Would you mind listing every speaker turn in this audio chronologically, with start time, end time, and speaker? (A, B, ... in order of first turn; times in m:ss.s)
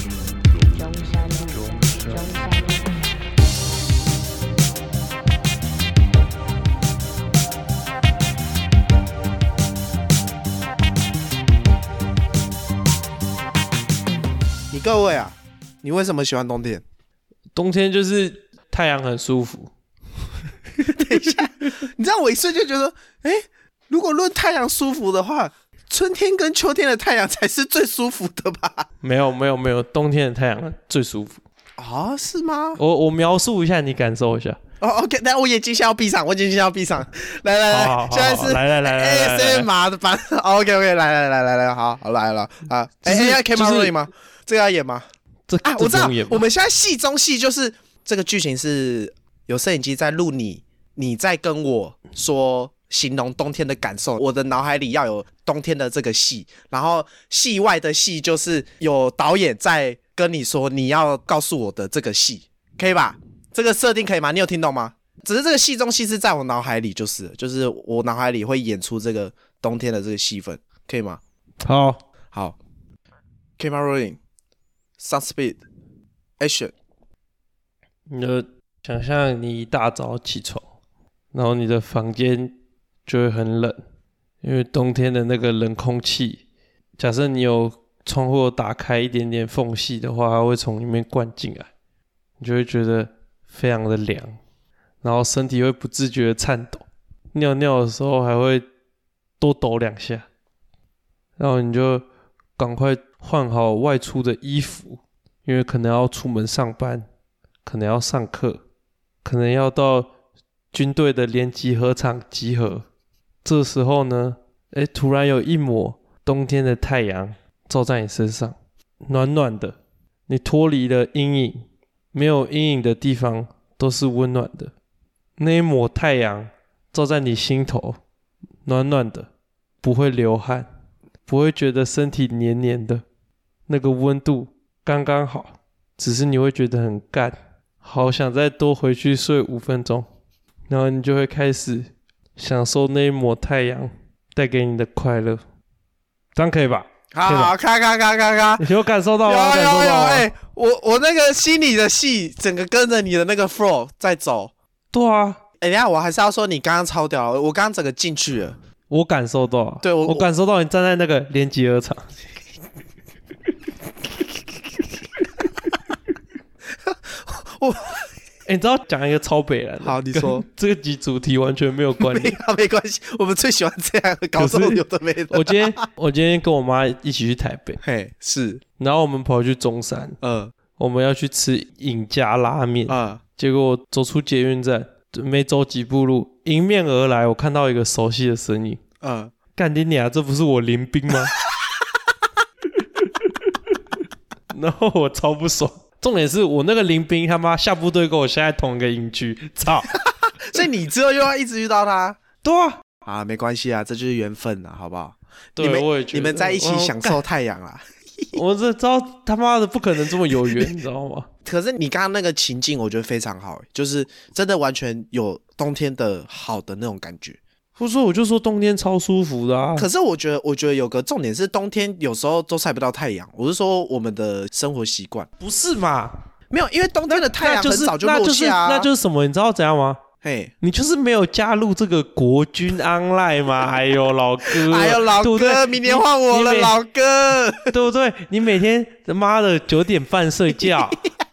0:00.7-0:02.9 A
0:14.7-0:16.8 B
0:17.5-0:19.7 C
0:20.8-0:21.3 C
0:20.8-0:28.9 B
0:29.0-0:31.4 C
0:31.8-0:32.8 B
0:32.8-0:34.6 C
0:34.8-0:45.0 B
0:37.7-0:39.7 C
0:43.0-0:43.9 C
0:45.5-0:46.4 C
0:45.6-1:11.2 B
1:11.6-1:12.0 C
1:13.6-1:14.2 B
1:15.0-1:15.6 B
1:16.4-1:16.7 B
1:18.1-1:20.6 C
1:21.3-1:22.5 C
1:23.0-1:23.8 C
1:24.4-1:26.4 C
1:27.0-1:31.7 C
1:32.4-1:34.4 C
1:35.0-1:38.6 C
1:39.4-1:40.2 C
1:41.4-1:42.0 C
1:42.6-1:47.0 C
1:47.6-1:48.6 C
1:49.2-1:50.1 C
1:50.7-1:52.8 C
1:53.4-1:59.8 C
2:00.3-2:04.7 C
2:05.4-2:08.0 C
2:08.6-2:09.3 C
2:09.8-2:10.7 C
2:11.2-2:13.0 C
2:13.7-2:20.1 C
2:20.7-2:25.4 C
2:26.4-2:27.5 C
2:27.1-2:28.6 B
2:28.6-2:30.3 C
2:29.2-2:34.5 B
2:34.9-2:35.4 C
2:35.6-2:38.6 B
2:38.9-2:42.0 C
2:39.8-2:40.3 B
2:46.8-2:48.0 B
2:48.4-2:52.4 C
2:49.8-2:50.4 B
2:52.0-2:55.7 B
2:54.4-2:57.8 C
2:57.8-2:58.6 B
2:58.8-3:00.2 C
3:00.2-3:00.5 B
3:00.8-3:08.8 C
3:02.9-3:03.2 B
3:09.0-3:09.3 B
3:09.6-3:11.3 C
3:13.0-3:13.5 C
3:14.5-3:20.0 C
3:19.9-3:22.2 B
3:22.4-3:22.8 C
3:23.0-3:28.4 B
3:25.6-3:27.2 C
3:28.3-3:31.3 C
3:30.1-3:30.6 B
3:31.4-3:37.4 B
3:37.8-3:39.9 C
3:39.8-3:45.3 B
3:45.4-3:46.2 C
3:46.5-3:48.9 B
3:47.1-3:50.0 C
3:50.2-3:50.5 B
3:50.6-3:56.7 C
3:54.5-3:57.7 B
3:57.7-4:01.0 C
4:00.6-4:00.9 B